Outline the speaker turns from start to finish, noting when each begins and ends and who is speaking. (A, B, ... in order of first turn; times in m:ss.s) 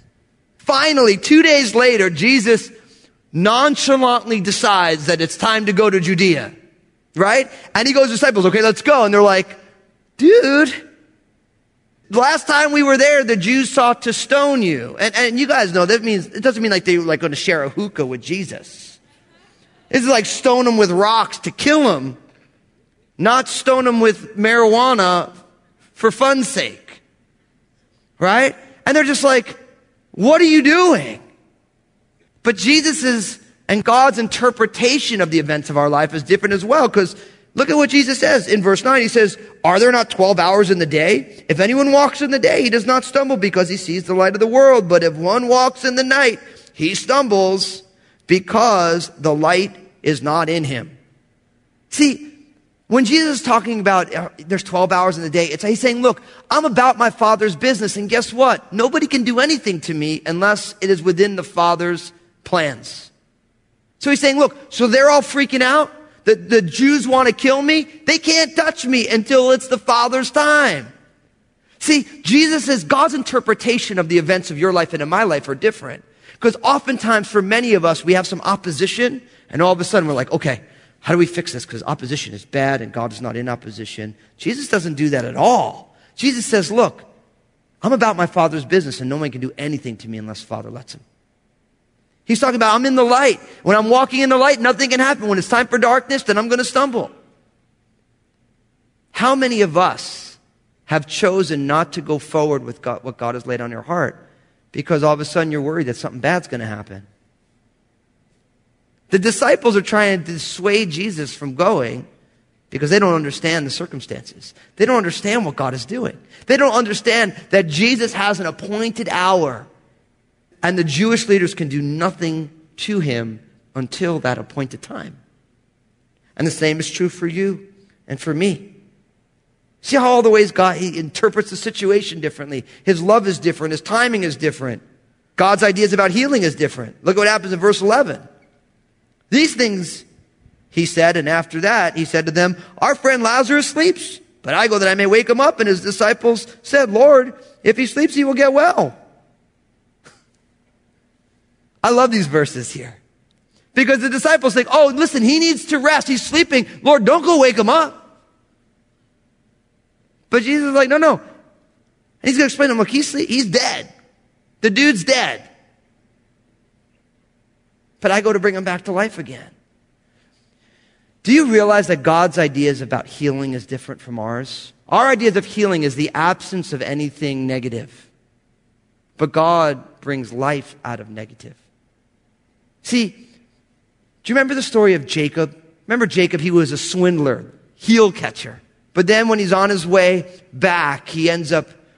0:00.6-0:02.7 A
0:03.3-0:06.5 A
0:07.2-0:09.6 A
0:10.2-0:10.8 A
0:12.1-0:19.0 A
0:19.9-0:22.2 A
0:23.2-0:25.3 A
0:26.0-0:27.0 A
0:28.2-0:29.6 A
0:30.1-0:31.2 A
0:32.4-0:50.9 A
0:51.9-0:52.3 A
0:52.9-1:03.1 A
1:04.0-1:10.9 A
1:11.8-1:27.0 A
1:27.8-1:31.0 A
1:32.3-1:37.1 A
1:39.1-1:44.2 A
1:44.7-1:47.1 A
1:49.1-1:52.0 A
1:52.7-1:59.7 A
2:00.6-2:05.2 A
2:06.4-2:08.7 A
2:09.8-2:14.8 A
2:15.4-2:18.2 A
2:19.3-2:20.0 A
2:20.7-2:28.9 A
2:31.8-2:33.0 A
2:33.7-2:38.0 A
2:40.3-2:41.2 A
2:42.2-2:43.9 A
2:44.6-2:45.5 A
2:48.0-2:49.5 A
2:51.2-2:58.0 A
2:59.2-3:01.6 A
3:02.8-3:03.2 A
3:04.2-3:11.7 A